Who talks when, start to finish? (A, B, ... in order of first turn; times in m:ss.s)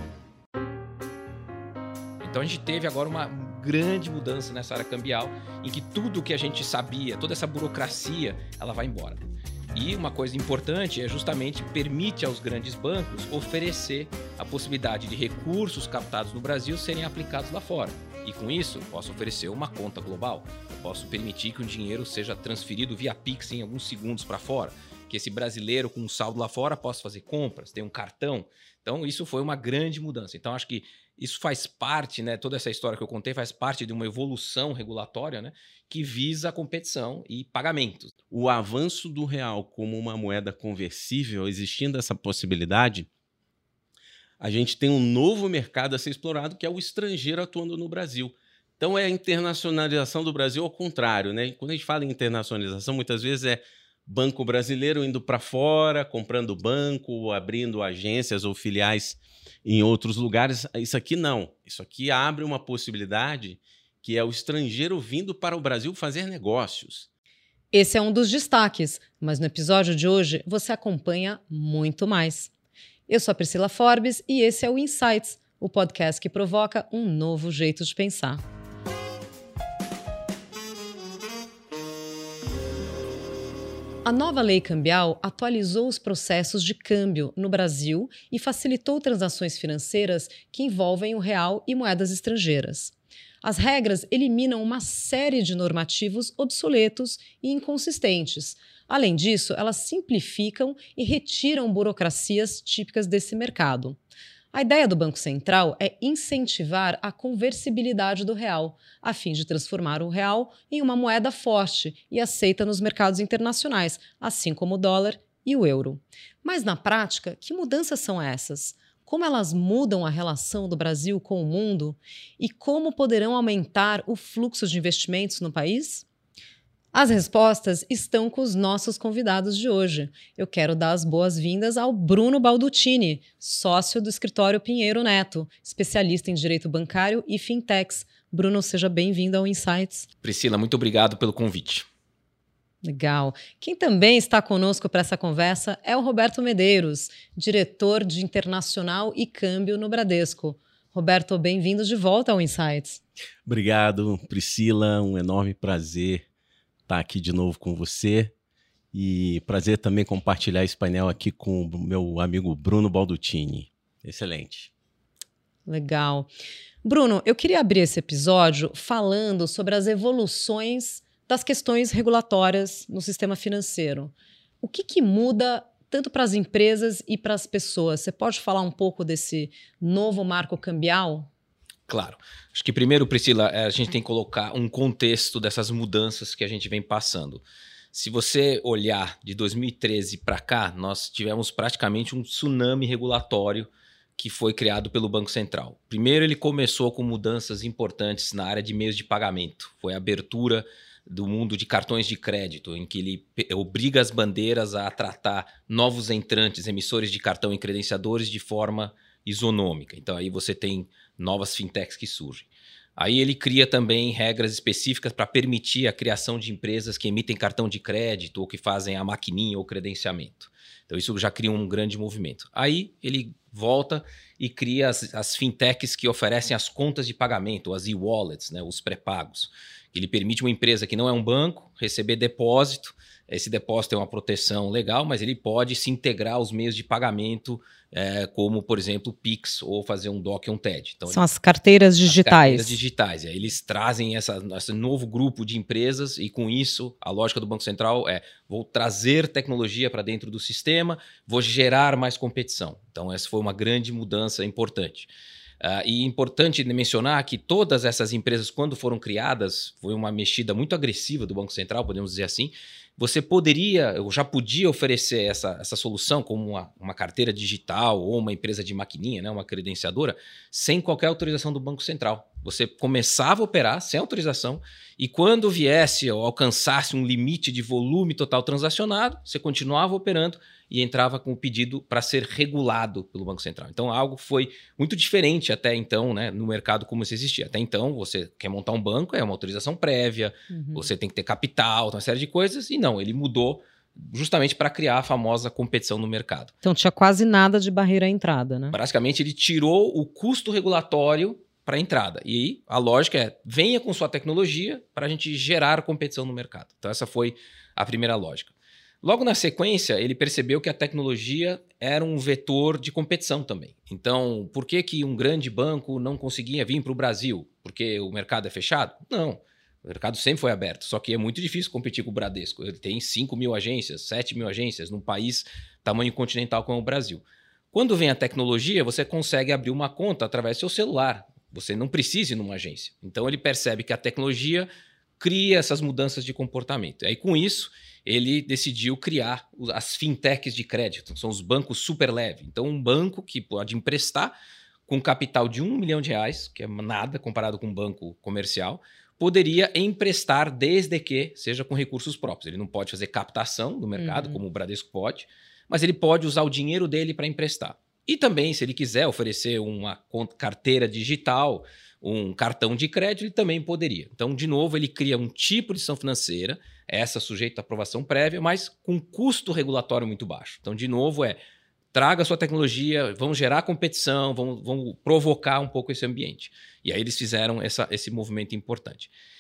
0:02.2-0:38.1 A
0:38.3-0:43.1 B
0:44.4-1:07.1 B
1:07.7-1:12.5 C
1:13.1-1:18.4 C
1:24.0-1:44.0 C
1:44.5-2:06.1 C
2:06.9-2:20.1 C
2:20.2-2:21.9 A
2:22.8-2:33.0 C
2:33.5-2:36.2 B
2:36.9-2:38.3 B
2:38.9-2:44.7 B
2:45.7-2:46.3 C
2:46.8-3:01.3 C
3:01.9-4:01.2 A
4:01.1-4:02.8 C
4:02.0-4:56.5 A
4:50.5-4:50.9 C
4:56.6-4:58.8 C
4:58.7-5:34.7 A
5:35.2-5:44.3 A
5:44.9-6:11.4 A
5:54.0-5:54.4 C
6:11.9-6:19.1 A